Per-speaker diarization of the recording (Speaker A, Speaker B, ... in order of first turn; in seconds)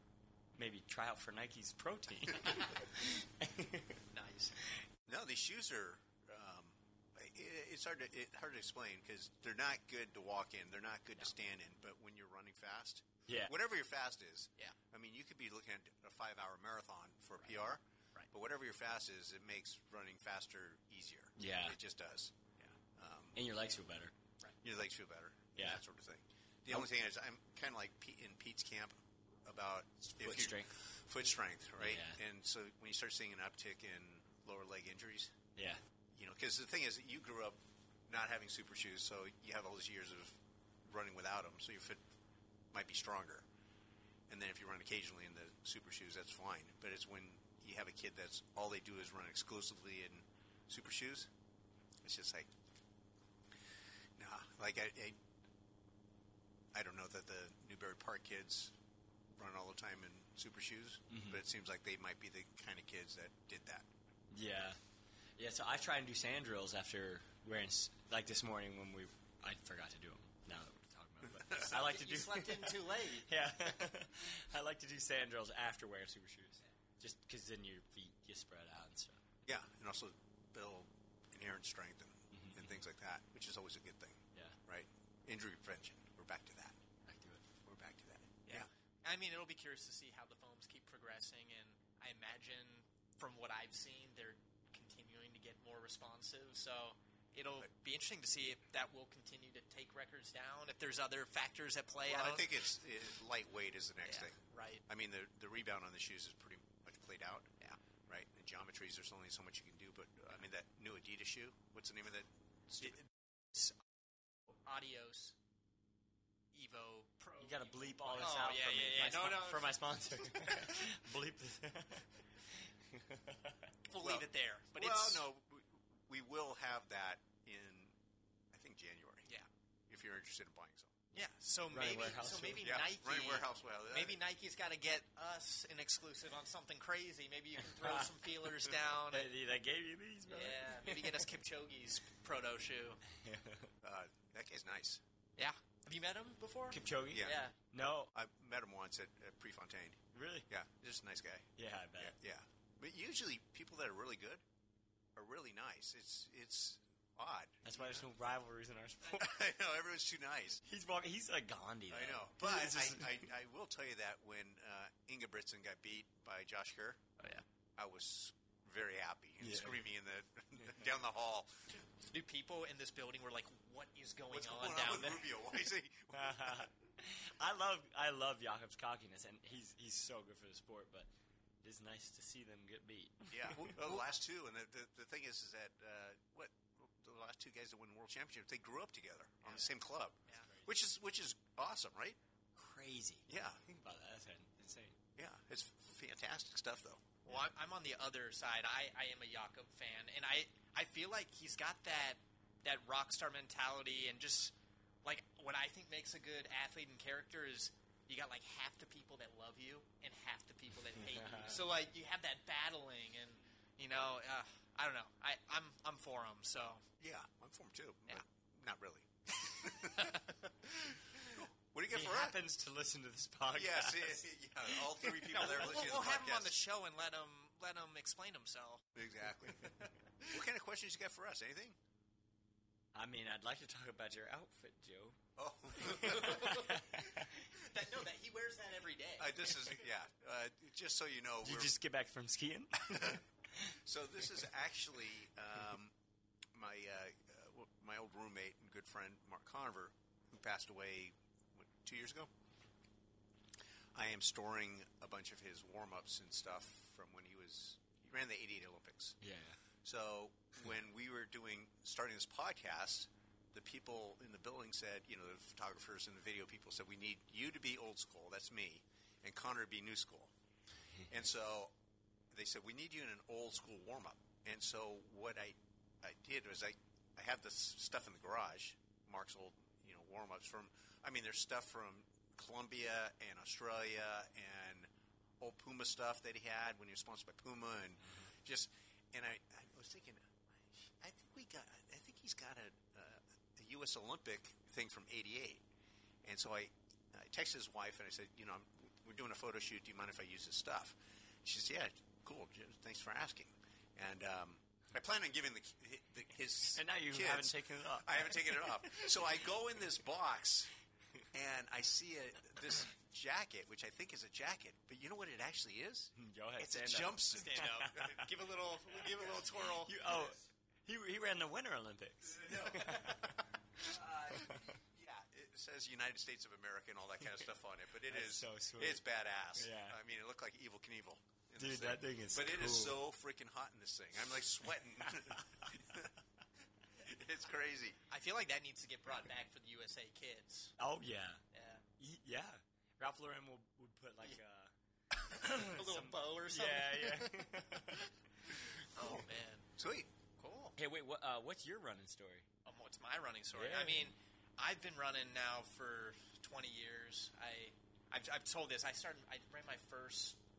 Speaker A: 0.6-4.0, 13.3-13.5, 21.4-21.8, 23.4-24.1, 30.2-30.7, 31.8-32.2, 35.6-35.8, 61.1-61.4, 64.3-64.8, 65.4-79.2, 82.3-82.8, 87.1-87.4, 117.4-122.1, 122.6-123.7, 131.7-132.7, 137.6-138.1, 139.1-141.2, 143.2-143.7, 146.7-148.1, 150.1-150.5, 151.6-152.2, 157.6-159.4, 160.6-163.3, 169.4-169.8, 176.1-181.1, 181.6-183.7, 192.6-194.9, 211.0-211.6, 221.9-224.2, 232.9-235.2, 235.8-237.4, 241.4-243.8, 259.2-259.6, 306.8-309.1, 316.2-318.3, 319.9-324.8, 328.1-329.0, 329.6-330.0, 331.6-333.0, 340.8-341.4, 342.0-344.7, 345.2-348.1, 350.8-352.5, 353.5-354.1
Speaker B: 4.1-4.5, 71.5-73.3, 88.5-102.6, 104.1-104.8, 112.8-113.8, 114.5-115.3, 116.5-119.7, 120.3-120.8, 123.9-125.3, 131.1-139.3, 140.3-143.0, 145.4-147.6, 167.2-167.4, 172.1-175.3, 183.6-184.0, 189.5-189.7, 197.3-216.9, 219.6-220.4, 225.1-228.8, 235.8-239.6, 317.3-320.0, 338.1-340.8, 341.5-341.8, 345.4-347.4, 348.7-349.7, 350.4-350.8, 352.6-360.4
Speaker C: 5.1-23.4, 24.6-35.4, 36.1-37.6, 38.1-42.0, 42.7-43.5, 44.3-51.3, 52.0-52.5, 54.2-55.2, 56.7-58.7, 59.3-63.9, 79.5-86.8, 87.6-88.7, 102.0-107.5, 108.1-113.0, 124.0-128.0, 128.5-129.3, 129.9-131.0, 132.6-134.2, 143.8-145.0, 147.1-147.4, 148.1-151.5, 152.0-154.4, 155.2-158.1, 159.1-160.6, 161.9-167.0, 167.8-171.8, 174.3-176.7, 183.3-192.2, 193.3-193.6, 195.2-197.2, 217.0-220.2, 220.7-222.4, 223.5-226.6, 228.9-231.8, 235.4-236.6, 239.2-241.7, 242.9-243.2, 243.8-245.9, 246.5-252.3, 253.9-259.2, 259.8-270.3, 271.1-271.7, 272.3-284.9, 285.4-295.6, 296.2-310.7, 311.3-318.2, 322.4-323.3, 323.8-336.1, 336.9-338.0, 349.8-350.1